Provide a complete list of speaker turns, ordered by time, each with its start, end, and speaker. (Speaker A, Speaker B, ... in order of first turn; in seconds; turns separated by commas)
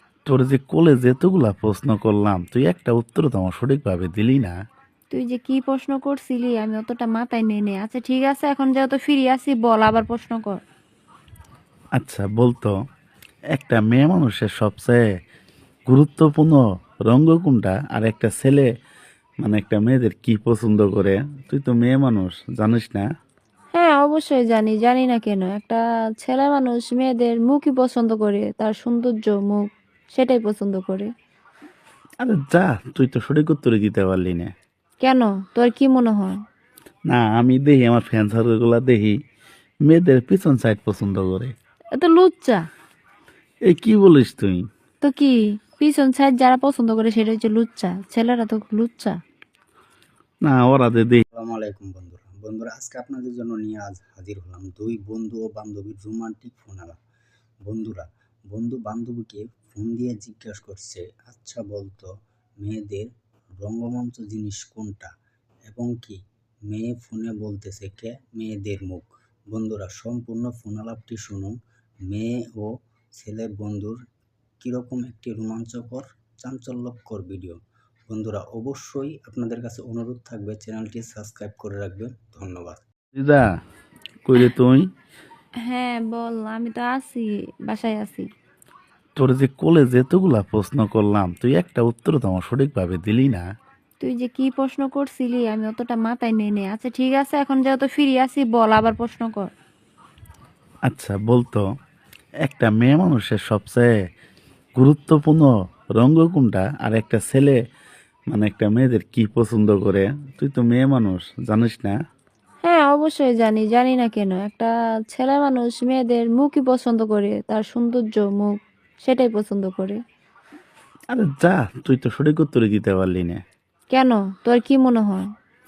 Speaker A: 0.3-4.5, Speaker B: 5.1-10.6, Speaker A: 12.0-12.7, Speaker A: 13.5-15.0, Speaker A: 15.9-18.6, Speaker A: 19.4-23.0, Speaker B: 23.7-31.1, Speaker A: 32.2-34.5, Speaker B: 35.0-36.4, Speaker A: 37.1-39.1, Speaker A: 39.9-41.5, Speaker B: 42.0-42.7, Speaker A: 43.7-44.6, Speaker B: 45.0-49.2, Speaker A: 50.4-51.2, Speaker C: 51.3-57.0, Speaker C: 57.6-62.1, Speaker C: 62.6-63.1, Speaker C: 63.6-65.1, Speaker C: 65.7-71.5, Speaker C: 72.1-74.0, Speaker C: 74.6-77.6, Speaker C: 78.1-82.8, Speaker A: 83.1-83.4, Speaker A: 84.2-84.8, Speaker B: 85.7-88.2, Speaker A: 89.2-93.4, Speaker B: 94.0-99.5, Speaker A: 100.9-101.6, Speaker A: 102.4-103.9, Speaker A: 104.8-107.5, Speaker A: 108.3-111.9, Speaker B: 112.6-120.0, Speaker A: 121.1-123.4, Speaker B: 123.9-125.3